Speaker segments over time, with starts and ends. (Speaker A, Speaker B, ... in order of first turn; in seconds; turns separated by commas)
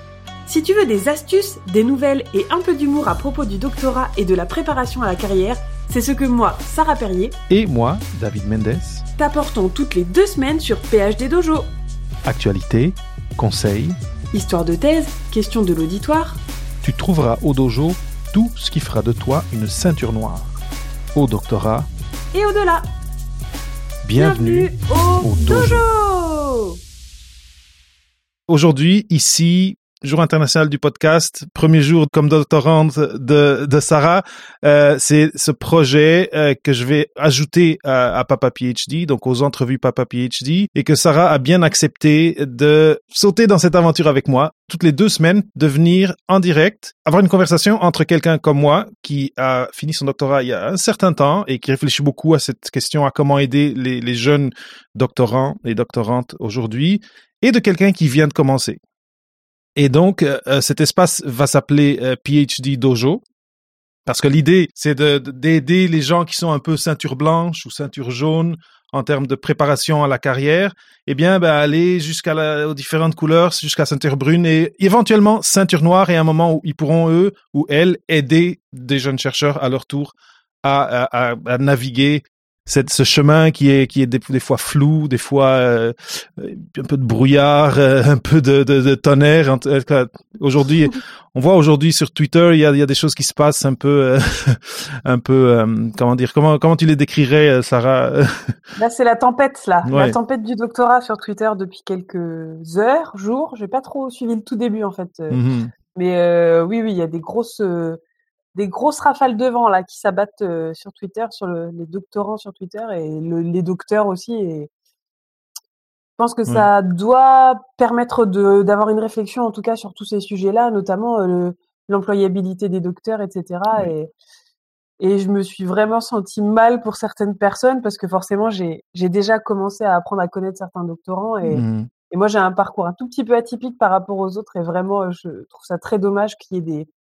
Speaker A: 0.5-7.4, Speaker B: 7.5-9.0, Speaker A: 9.2-11.7, Speaker B: 12.2-14.0, Speaker A: 14.3-16.4, Speaker B: 16.8-20.6, Speaker B: 21.1-21.9, Speaker A: 22.3-22.9, Speaker B: 24.0-25.8, Speaker A: 24.2-26.8, Speaker B: 28.5-58.8, Speaker B: 59.8-63.2, Speaker B: 64.0-98.5, Speaker A: 98.8-105.4, Speaker B: 99.8-100.2, Speaker B: 105.3-105.7, Speaker A: 105.9-108.0, Speaker A: 108.5-114.7, Speaker A: 116.2-124.1, Speaker A: 125.0-136.9, Speaker B: 131.4-131.9